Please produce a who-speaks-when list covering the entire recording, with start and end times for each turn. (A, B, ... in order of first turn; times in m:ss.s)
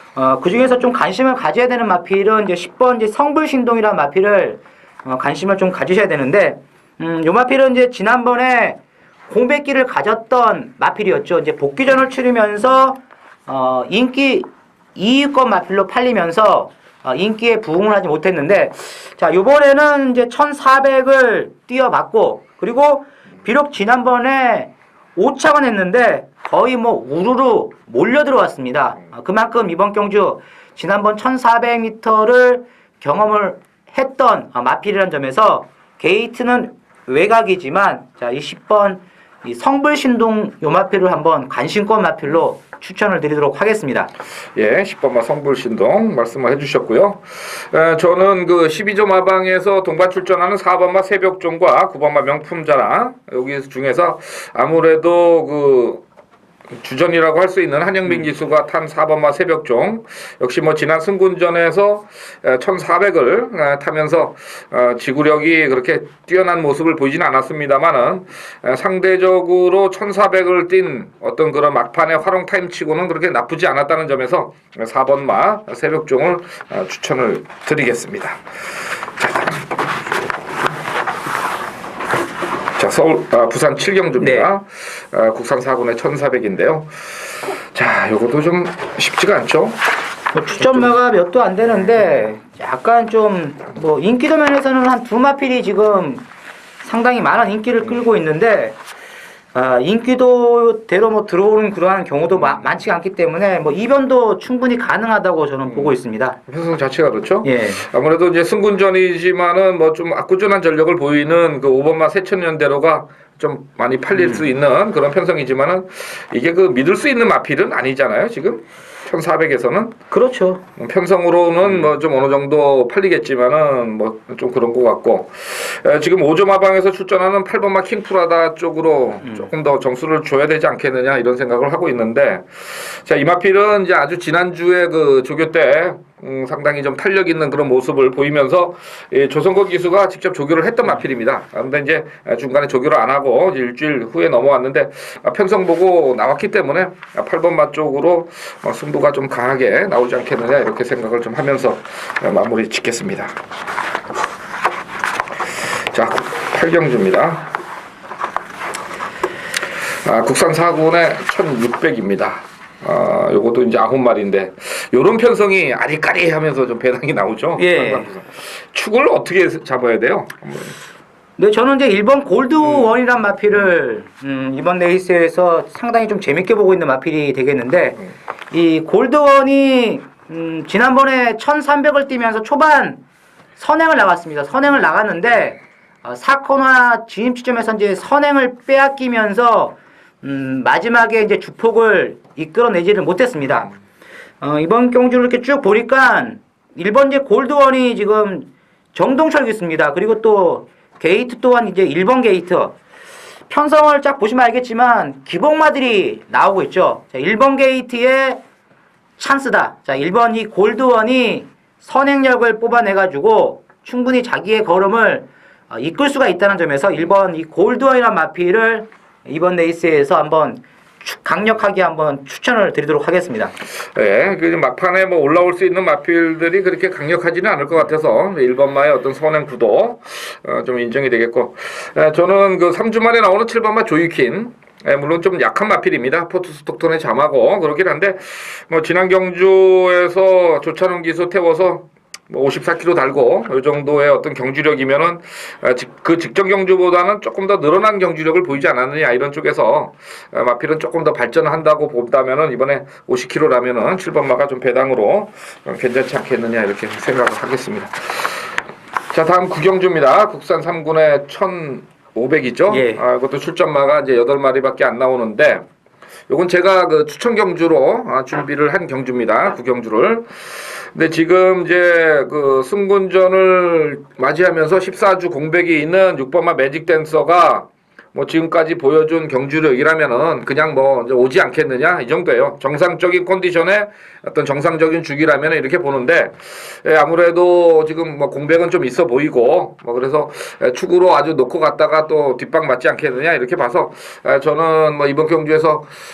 0:00.2-0:44.1 A
0:44.6-0:56.0 B
0:56.8-1:18.4 B
1:19.2-1:20.2 B
1:22.8-1:26.9 B
1:24.2-1:24.5 A
1:27.7-1:29.8 B
1:30.3-1:36.2 A
1:36.8-1:38.8 A
1:39.5-1:46.4 A
1:46.5-1:59.9 B
1:47.4-1:47.8 A
1:54.1-1:54.4 A
2:00.1-2:00.6 A
2:00.8-2:33.3 B
2:35.9-2:37.5 B
2:40.0-2:50.8 B
2:47.6-2:48.1 A
2:51.4-3:03.0 A
3:03.6-3:13.7 A
3:14.4-3:22.8 A
3:23.5-3:28.4 A
3:29.2-3:43.5 A
3:43.9-4:18.4 B
4:19.1-4:25.6 B
4:22.7-4:23.0 A
4:26.3-4:55.9 B